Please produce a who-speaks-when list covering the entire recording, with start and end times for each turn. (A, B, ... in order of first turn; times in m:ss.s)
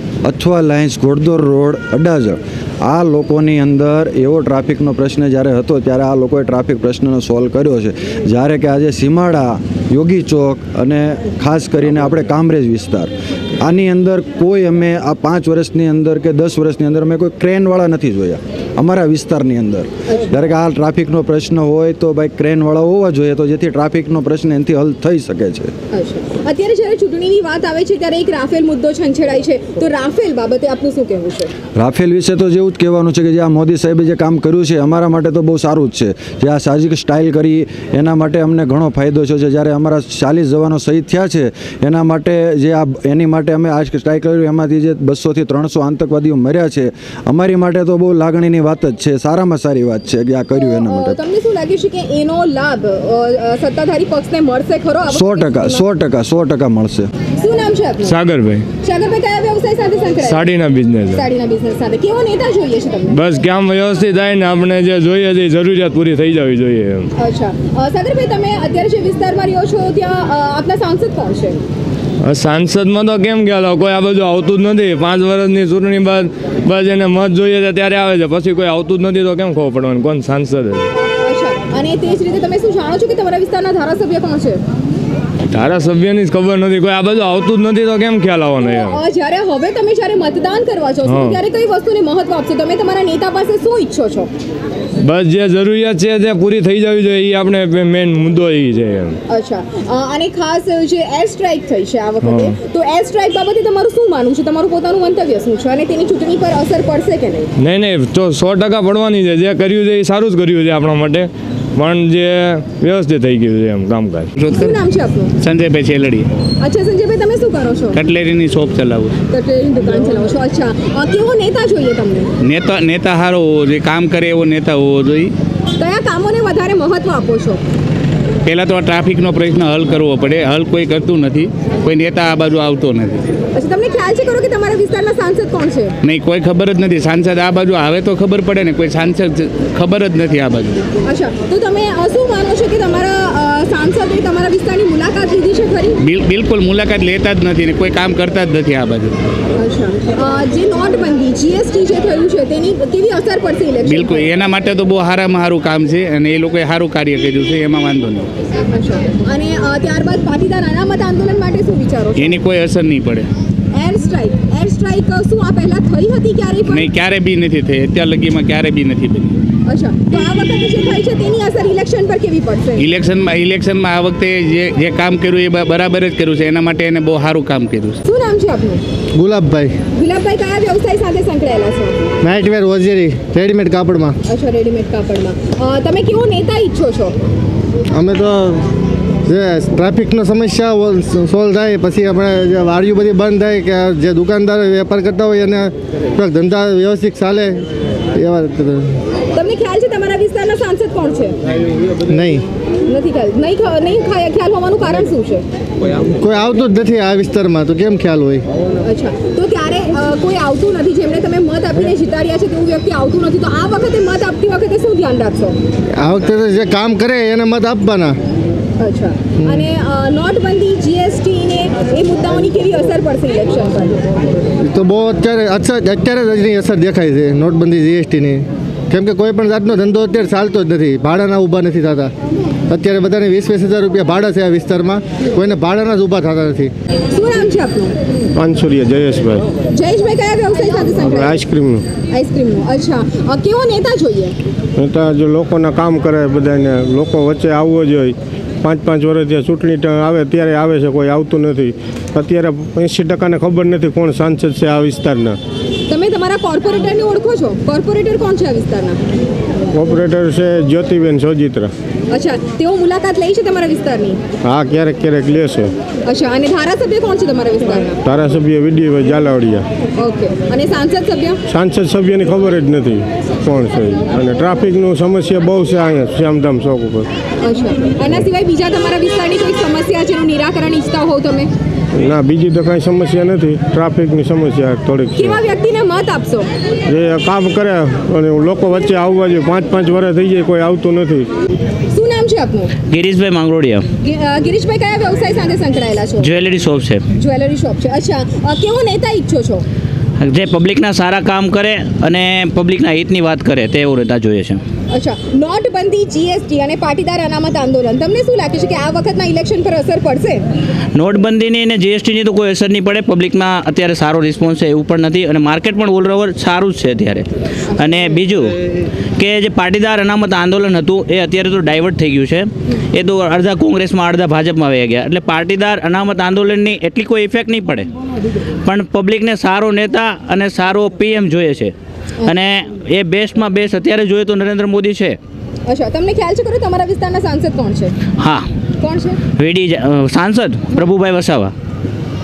0:00.2-0:25.7 A
0:25.9-0:31.5 B
0:31.8-0:51.2 A
0:50.6-0:55.8 B
0:55.1-0:57.1 A
0:57.4-0:58.2 B
0:58.0-0:58.6 C
0:58.8-1:00.5 B
1:00.2-1:01.2 C
1:01.1-1:03.2 B
1:03.1-1:07.1 C
1:07.2-1:11.6 B
1:12.2-1:20.9 C
1:21.2-1:24.6 B
1:25.5-1:29.0 C
1:28.6-1:34.3 B
1:31.0-1:31.4 C
1:35.0-1:39.2 C
1:39.3-1:47.5 B
1:42.2-1:42.6 C
1:47.6-1:54.3 C
1:54.4-1:54.8 D
1:54.5-1:55.3 B
1:55.4-1:56.3 D
1:56.6-1:58.0 B
1:57.9-1:59.2 D
1:59.3-2:02.3 B
2:02.4-2:05.3 D
2:05.8-2:07.6 B
2:08.4-2:13.2 D
2:13.6-2:16.0 B
2:16.0-2:20.9 D
2:21.1-2:26.0 B
2:26.0-2:29.2 D
2:29.6-2:34.3 B
2:33.8-2:38.3 D
2:38.7-2:42.4 B
2:42.2-2:43.3 D
2:43.8-2:46.9 B
2:46.7-2:49.4 D
2:49.7-2:52.8 B
2:52.8-2:58.0 D
2:58.0-2:58.8 B
2:59.2-2:59.8 E
2:59.9-3:02.0 B
3:02.2-3:04.2 E
3:04.3-3:07.2 B
3:07.9-3:08.6 E
3:09.3-3:17.6 E
3:18.2-3:19.0 E
3:19.3-3:21.4 B
3:22.1-3:22.4 E
3:22.9-3:25.4 B
3:26.2-3:28.4 E
3:28.8-3:35.6 B
3:36.0-3:38.2 E
3:38.8-3:44.1 B
3:44.6-3:52.1 E
3:52.7-3:56.7 E
3:57.1-3:58.0 B
3:58.4-3:59.4 F
3:59.7-4:01.4 B
4:01.1-4:01.8 F
4:02.1-4:04.4 B
4:04.8-4:15.4 F
4:15.9-4:19.0 B
4:19.7-4:21.7 F
4:22.1-4:24.2 B
4:24.4-4:25.7 F
4:26.1-4:28.0 B
4:28.0-4:29.7 F
4:30.0-4:31.4 B
4:31.5-4:37.1 F
4:37.4-4:41.5 B
4:42.0-4:45.4 F
4:45.2-4:46.5 B
4:46.9-4:51.3 F
4:51.9-4:52.7 B
4:52.9-4:53.8 G
4:54.0-4:56.3 B
4:56.2-4:57.0 G
4:57.1-4:59.6 B
5:00.2-5:04.6 G
5:04.9-5:10.4 B
5:11.0-5:18.6 G
5:17.8-5:18.3 B
5:19.2-5:27.9 G
5:28.7-5:31.7 G
5:32.3-5:35.2 G
5:35.7-5:38.0 B
5:38.2-5:38.4 G
5:38.8-5:39.2 B
5:39.4-5:41.5 G